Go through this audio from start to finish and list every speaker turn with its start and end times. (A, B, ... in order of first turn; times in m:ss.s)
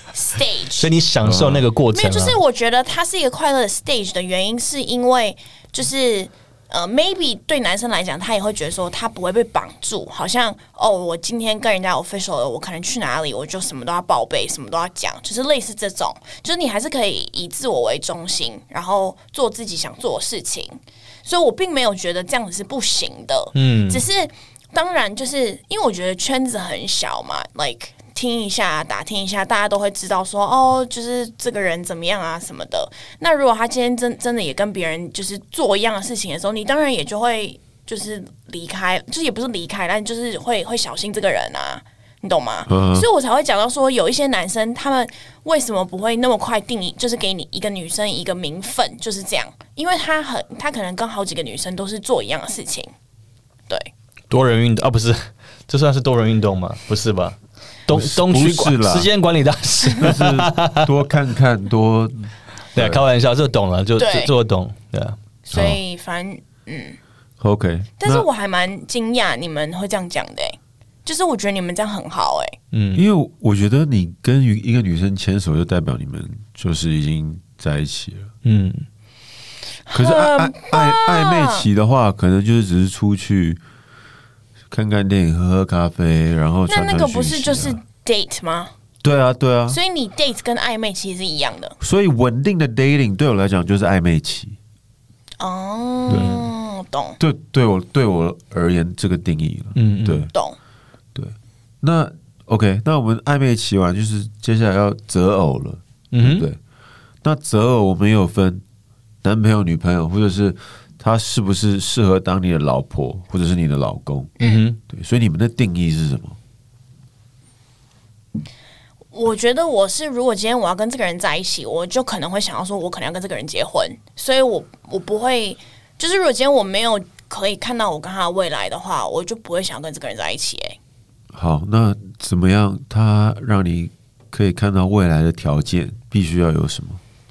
0:00.1-0:00.9 A
0:00.8-0:02.4 B
0:01.2-0:01.6 C
0:01.9-0:52.9 A
0:23.6-0:24.0 B
0:42.7-0:43.1 C
0:54.3-1:00.9 B
0:57.9-0:59.1 C
0:59.9-1:03.0 C
1:02.8-1:05.2 B
1:04.0-1:04.3 A
1:05.5-1:07.0 A
1:05.5-1:05.8 C
1:07.4-1:08.3 C
1:08.0-1:12.6 A
1:12.7-1:13.0 B
1:13.0-1:18.3 C
1:18.4-1:18.9 B
1:19.9-1:21.7 A
1:19.9-1:23.6 C
1:24.7-1:27.8 C
1:26.7-1:28.7 A
1:29.0-1:29.8 C
1:29.7-1:31.8 A
1:31.8-1:34.6 C
1:35.4-1:37.2 A
1:36.1-1:36.5 C
1:36.1-1:36.4 B
1:37.2-1:40.3 C
1:39.8-1:40.3 B
1:41.2-1:46.6 C
1:46.1-1:46.4 B
1:47.2-1:48.6 C
1:49.2-1:56.4 C
1:54.4-1:54.6 A
1:54.4-1:54.8 B
1:59.1-2:10.8 A
2:11.3-2:17.0 C